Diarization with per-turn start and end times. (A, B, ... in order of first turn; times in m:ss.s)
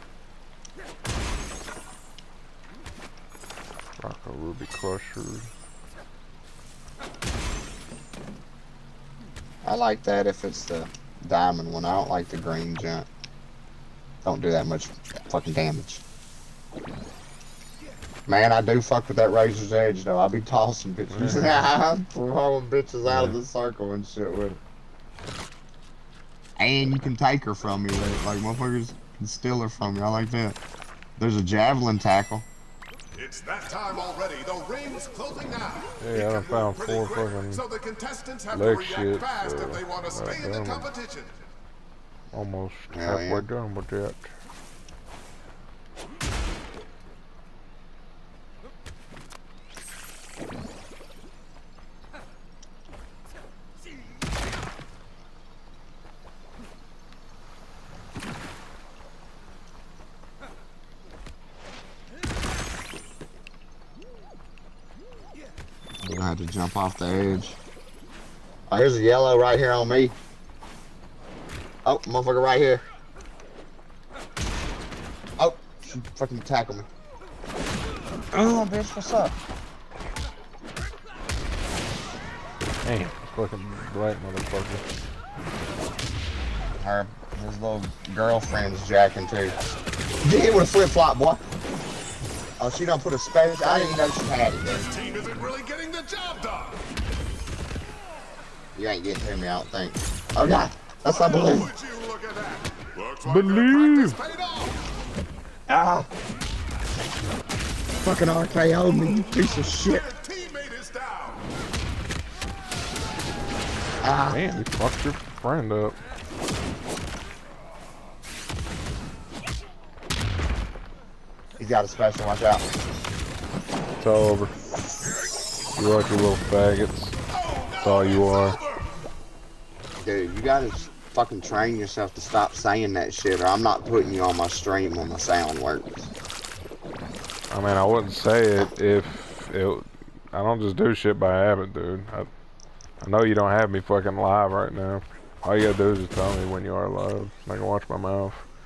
0:04.0-0:05.5 A
0:09.6-0:13.1 B
0:14.2-0:16.0 B
0:18.3-0:24.6 B
0:21.1-0:21.6 A
0:23.0-0:23.4 A
0:26.6-0:30.6 B
0:31.2-0:32.4 B
0:33.1-0:41.4 C
0:36.0-0:37.6 A
0:38.5-0:40.9 A
0:42.3-0:44.3 A
0:42.9-0:43.5 B
1:06.0-1:07.6 B
1:08.7-1:10.1 B
1:11.8-1:12.8 B
1:15.4-1:16.9 B
1:18.3-1:19.3 B
1:22.8-1:24.8 A
1:26.8-1:29.6 B
1:30.2-1:31.4 B
1:32.6-1:34.9 B
1:34.6-1:36.8 C
1:38.8-1:41.7 B
1:41.0-1:44.8 C
1:43.2-1:44.2 A
1:45.7-1:46.1 B
1:48.0-1:50.0 B
1:49.0-1:51.4 C
1:54.0-1:54.6 B
1:54.2-1:56.0 A
2:01.6-2:02.7 B
2:04.0-2:04.5 A
2:05.7-2:07.2 A
2:07.3-2:08.8 C
2:07.8-2:08.6 A
2:10.0-2:16.1 B
2:17.5-2:22.3 A
2:23.0-2:28.4 A